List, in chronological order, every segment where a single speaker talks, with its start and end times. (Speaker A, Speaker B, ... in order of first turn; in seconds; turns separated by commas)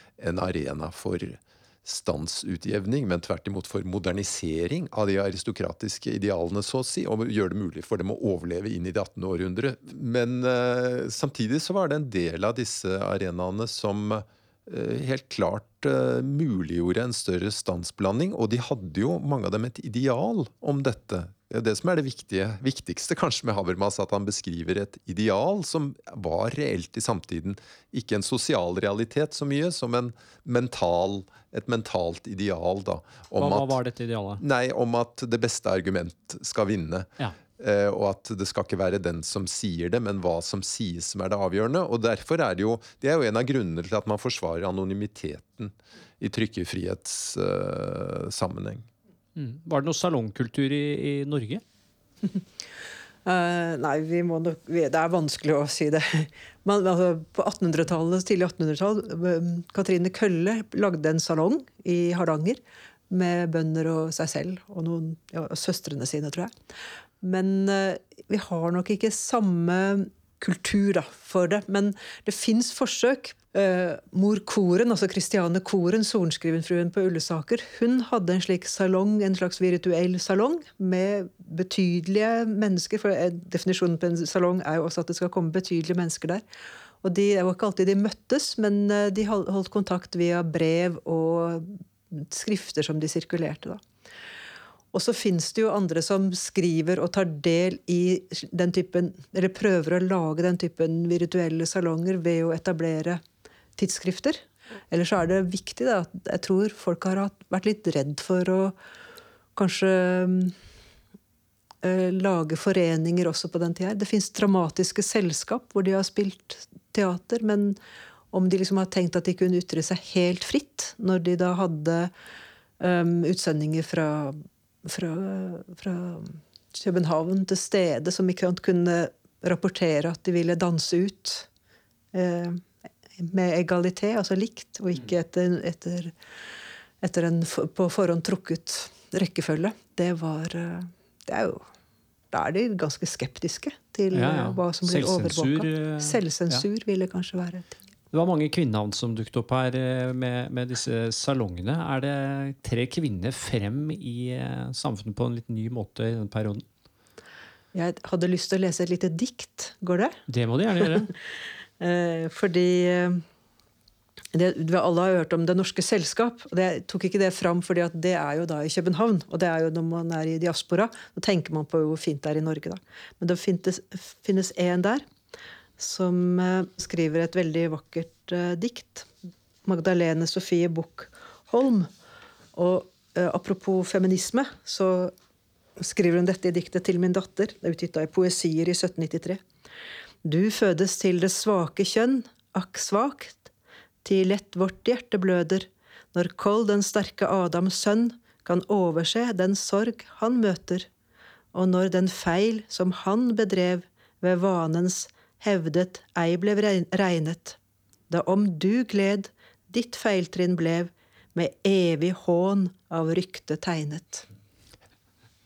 Speaker A: 0.2-33.8, Speaker B: 33.4-34.4, Speaker A: 34.4-48.9, Speaker B: 49.4-51.6, Speaker C: 53.2-66.5, Speaker C: 67.2-86.4, Speaker C: 87.0-93.8, Speaker C: 94.9-103.2, Speaker C: 103.8-108.8, Speaker C: 109.6-110.5, Speaker C: 111.8-117.8, Speaker C: 118.3-122.1, Speaker C: 122.8-131.5, Speaker C: 132.1-132.7, Speaker C: 133.2-136.1, Speaker C: 137.0-141.7, Speaker C: 142.3-147.8, Speaker B: 144.1-146.6, Speaker B: 148.1-156.7, Speaker C: 157.7-160.2, Speaker B: 160.3-161.1, Speaker C: 160.8-161.1, Speaker C: 161.8-163.2, Speaker C: 164.3-175.1, Speaker C: 175.8-179.1, Speaker C: 179.7-181.9, Speaker C: 182.6-185.1, Speaker C: 185.8-189.4, Speaker C: 190.2-193.5, Speaker C: 194.0-200.9, Speaker C: 201.5-207.6, Speaker C: 208.1-214.2